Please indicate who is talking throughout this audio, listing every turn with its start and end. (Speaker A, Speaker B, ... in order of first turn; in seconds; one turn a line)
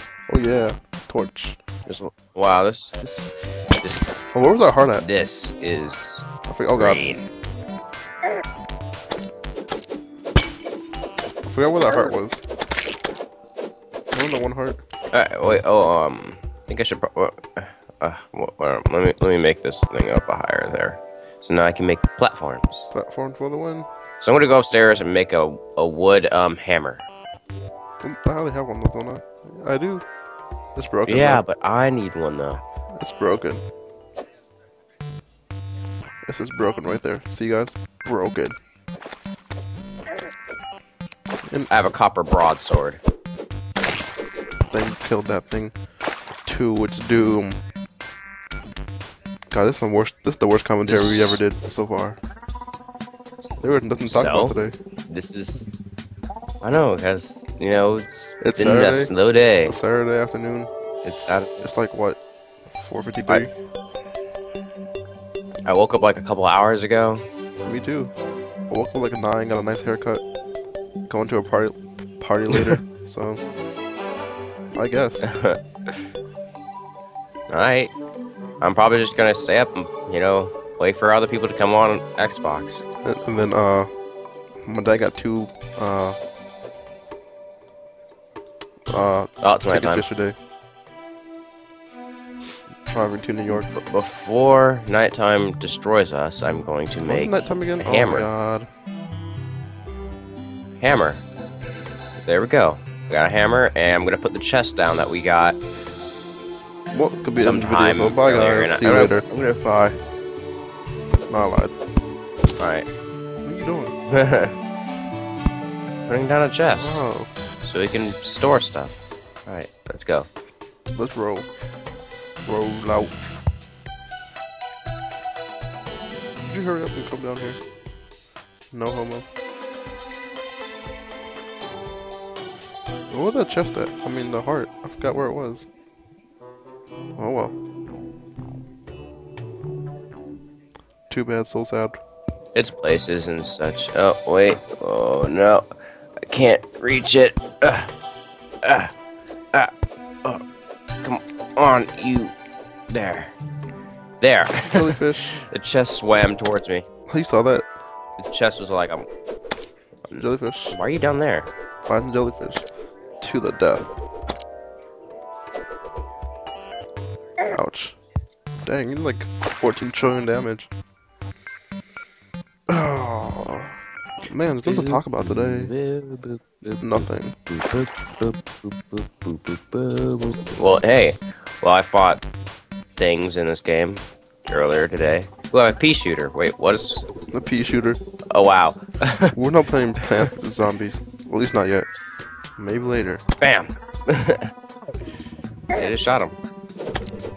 Speaker A: 0.3-1.6
Speaker B: 1.9-4.0
Speaker A: 4.3-5.0
Speaker B: 5.0-6.2
Speaker A: 6.5-7.0
Speaker B: 6.7-7.3
Speaker A: 11.4-12.4
Speaker A: 14.1-14.8
Speaker B: 15.1-22.9
Speaker A: 22.9-23.9
Speaker B: 24.2-27.1
Speaker A: 28.0-30.0
Speaker A: 30.8-31.4
Speaker B: 31.1-32.6
Speaker A: 33.0-33.6
Speaker A: 36.2-38.5
Speaker B: 41.7-43.0
Speaker A: 44.7-45.7
Speaker A: 46.4-47.6
Speaker A: 49.5-52.2
Speaker B: 50.8-51.4
Speaker A: 53.6-54.7
Speaker B: 54.0-54.5
Speaker B: 55.1-55.7
Speaker B: 56.6-59.8
Speaker A: 58.4-59.1
Speaker A: 59.6-60.7
Speaker B: 61.0-61.6
Speaker A: 61.6-62.2
Speaker A: 62.7-63.5
Speaker B: 65.7-67.2
Speaker A: 67.6-68.1
Speaker A: 68.7-70.2
Speaker A: 71.1-73.4
Speaker B: 72.5-72.8
Speaker A: 74.7-75.3
Speaker B: 75.2-75.6
Speaker B: 77.5-77.9
Speaker B: 78.6-82.8
Speaker A: 83.0-83.9
Speaker A: 84.6-86.2
Speaker A: 88.9-90.3
Speaker B: 89.4-90.1
Speaker A: 92.9-93.7
Speaker B: 93.7-98.3
Speaker A: 97.0-98.7
Speaker B: 100.8-101.2
Speaker B: 102.2-105.6
Speaker A: 106.9-110.0
Speaker B: 107.4-109.6
Speaker A: 111.3-111.7
Speaker B: 112.6-112.9
Speaker A: 113.4-113.9
Speaker B: 114.1-114.5
Speaker B: 116.1-117.0
Speaker A: 116.8-117.3
Speaker B: 117.6-118.9
Speaker B: 119.5-120.3
Speaker A: 120.9-121.5
Speaker A: 122.4-123.1
Speaker A: 126.4-127.6
Speaker A: 128.7-129.2
Speaker A: 133.1-135.7
Speaker A: 137.2-137.5
Speaker A: 141.1-142.0
Speaker B: 142.5-145.7
Speaker B: 146.3-147.9
Speaker B: 148.6-148.9
Speaker B: 151.0-152.3
Speaker B: 152.9-153.3
Speaker B: 154.2-156.8
Speaker A: 154.7-155.4
Speaker A: 157.1-157.7
Speaker B: 158.2-159.1
Speaker A: 160.1-160.8
Speaker B: 160.7-161.5
Speaker A: 161.8-162.6
Speaker A: 163.2-163.9
Speaker A: 167.5-168.0
Speaker A: 168.6-170.7
Speaker A: 172.7-173.8
Speaker A: 174.3-175.7
Speaker B: 174.6-182.2
Speaker A: 176.8-177.4
Speaker B: 183.0-187.1
Speaker A: 187.3-188.0
Speaker B: 188.3-189.3
Speaker A: 189.3-191.9
Speaker A: 192.6-193.2
Speaker B: 193.4-194.5
Speaker B: 195.7-196.3